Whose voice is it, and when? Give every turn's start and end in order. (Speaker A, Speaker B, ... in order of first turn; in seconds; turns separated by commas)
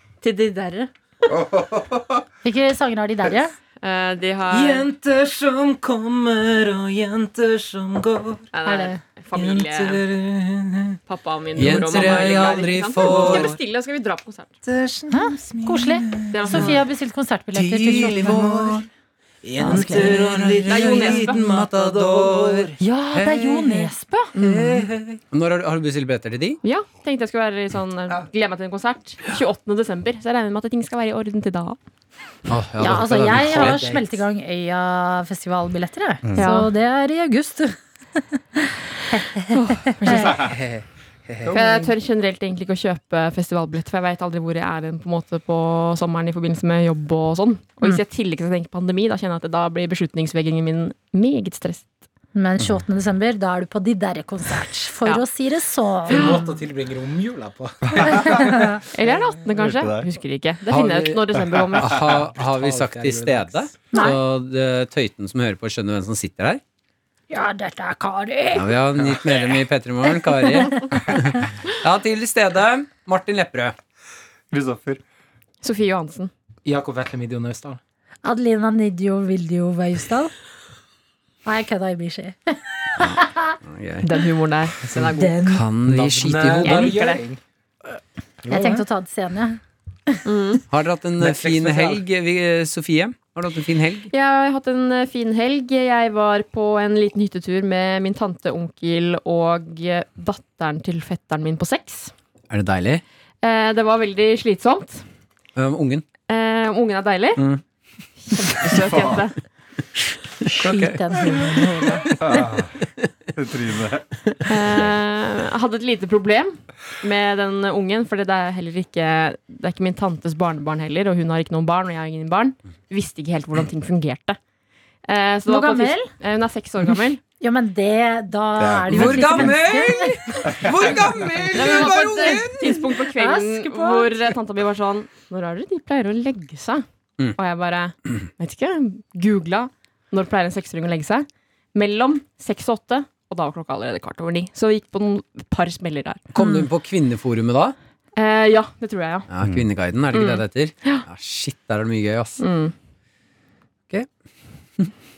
Speaker A: 0.2-0.9, Speaker B: 1.3-2.2, Speaker C: 2.4-3.5, Speaker A: 3.8-4.9, Speaker D: 4.5-8.5, Speaker A: 8.5-10.0, Speaker C: 8.7-9.0, Speaker D: 9.3-11.0, Speaker A: 11.1-14.6, Speaker E: 11.6-13.5, Speaker D: 11.6-13.6, Speaker D: 14.7-16.8, Speaker C: 15.1-18.4, Speaker A: 16.3-16.8, Speaker E: 17.5-18.9, Speaker D: 17.9-18.9, Speaker D: 19.4-22.8, Speaker E: 19.6-23.9, Speaker C: 19.7-20.2, Speaker A: 20.7-21.4, Speaker C: 22.8-24.3, Speaker A: 24.4-24.8, Speaker D: 24.4-25.0, Speaker E: 24.5-26.6, Speaker A: 26.6-31.8, Speaker E: 32.5-33.8, Speaker C: 32.8-40.4, Speaker D: 33.4-34.2, Speaker A: 36.4-36.7, Speaker A: 39.5-40.4, Speaker B: 40.0-40.5, Speaker D: 40.5-41.9, Speaker A: 41.5-51.9, Speaker C: 52.4-56.6, Speaker D: 56.1-58.3, Speaker B: 57.9-58.7, Speaker C: 58.3-58.8, Speaker A: 58.9-62.0, Speaker B: 59.5-60.1, Speaker E: 60.7-61.2, Speaker B: 61.5-62.0, Speaker E: 61.8-66.6, Speaker D: 62.3-63.8, Speaker C: 63.9-64.2, Speaker C: 67.3-68.7, Speaker E: 68.5-73.8, Speaker C: 70.7-71.0, Speaker B: 74.5-75.0, Speaker A: 75.6-76.3, Speaker D: 76.7-77.8, Speaker C: 78.2-80.3, Speaker C: 81.5-83.6, Speaker E: 83.0-84.2, Speaker A: 84.0-85.1, Speaker D: 84.8-87.4, Speaker C: 85.2-85.6, Speaker E: 85.4-87.2, Speaker A: 86.6-87.2, Speaker D: 88.4-88.9, Speaker C: 88.5-90.2, Speaker A: 90.3-90.6, Speaker E: 90.7-94.1, Speaker D: 91.2-92.0, Speaker A: 94.1-102.1, Speaker E: 102.5-103.0, Speaker A: 103.4-105.0, Speaker E: 105.6-106.0, Speaker A: 106.3-107.4, Speaker E: 107.4-107.6, Speaker A: 108.3-109.3, Speaker B: 108.9-109.2, Speaker C: 110.5-112.5, Speaker E: 110.6-111.4, Speaker B: 112.2-112.8, Speaker B: 113.3-114.1, Speaker A: 114.5-124.4, Speaker A: 125.1-127.2, Speaker C: 125.5-126.1, Speaker C: 127.4-130.5, Speaker B: 128.6-129.7, Speaker E: 128.9-132.8, Speaker B: 130.5-131.7, Speaker A: 131.5-136.8, Speaker C: 131.9-132.3, Speaker C: 133.0-134.2, Speaker A: 137.4-146.7, Speaker E: 146.3-147.8, Speaker A: 148.2-149.3, Speaker E: 149.3-152.4, Speaker A: 150.1-151.1, Speaker A: 152.4-152.7